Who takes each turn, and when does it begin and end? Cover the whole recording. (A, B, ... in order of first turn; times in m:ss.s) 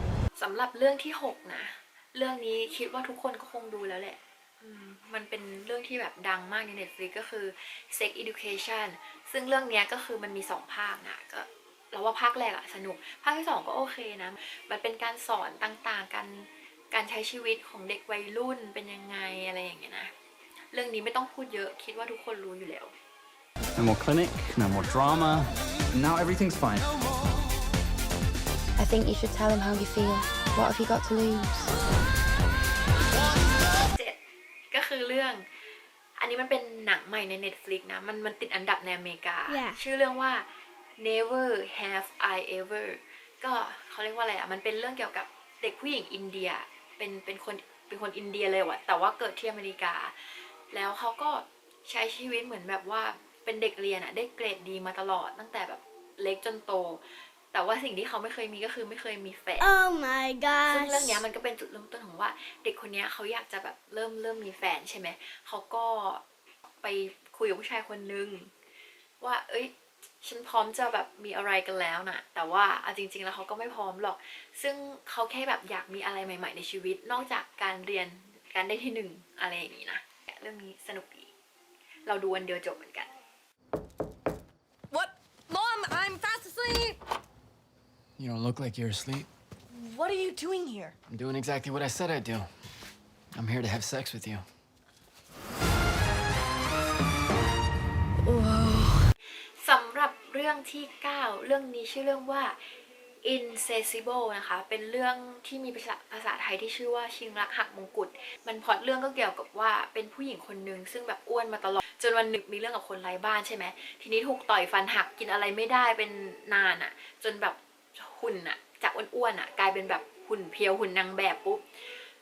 0:00.4-0:20.1 A
0:20.7-0:22.9 A
0:23.8-0:26.9 B
0:28.8-0:31.7 C
0:33.9-0:34.2 A
0:34.7-0:35.5 A
0:36.2-0:40.5 A
0:39.5-0:39.8 D
0:41.0-0:59.7 A
0:59.6-1:01.2 D
1:00.7-1:08.5 A
1:09.2-1:21.3 A
1:22.1-1:23.1 A
1:24.9-1:27.0 E
1:28.2-1:29.3 F
1:29.7-1:31.0 E
1:31.1-1:32.5 F
1:33.3-1:34.4 F
1:39.6-1:42.6 A
1:43.2-2:01.8 A